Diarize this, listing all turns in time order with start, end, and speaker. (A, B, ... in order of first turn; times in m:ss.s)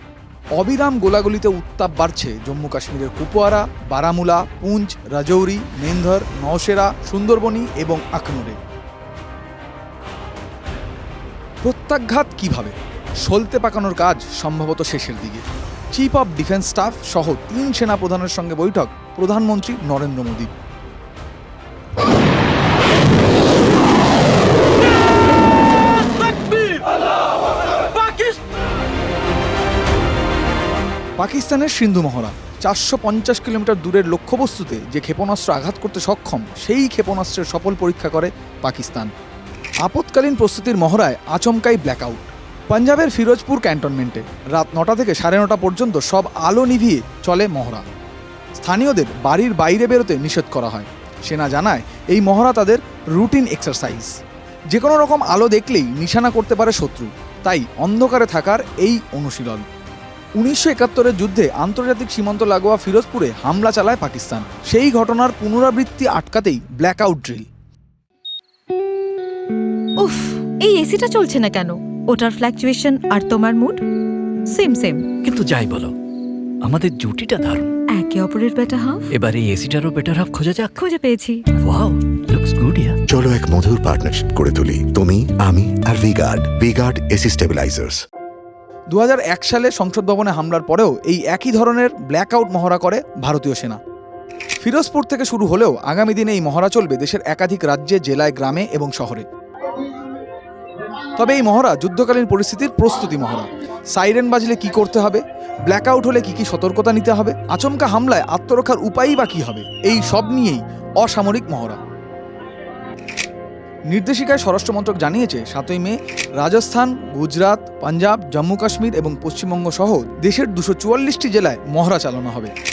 0:00.6-0:08.6 A
0:11.6-0:12.7 A
0:13.2-0:20.5 A
0:31.2-0:39.1 A
0:39.8-0:47.8 A
0:48.6-0:54.1 A
0:54.7-0:59.7 A
1:00.4-1:07.5 A
1:10.0-1:13.8 B
1:14.5-1:15.2 B
1:15.2-1:15.9 C
1:16.7-1:17.7 C
1:17.9-1:19.1 B
1:19.2-1:20.8 C
1:20.8-1:21.4 B
1:21.6-1:23.0 C
1:23.1-1:28.0 D
1:28.9-1:33.8 A
1:34.6-1:39.2 A
1:41.2-1:51.8 A
1:53.9-2:02.5 A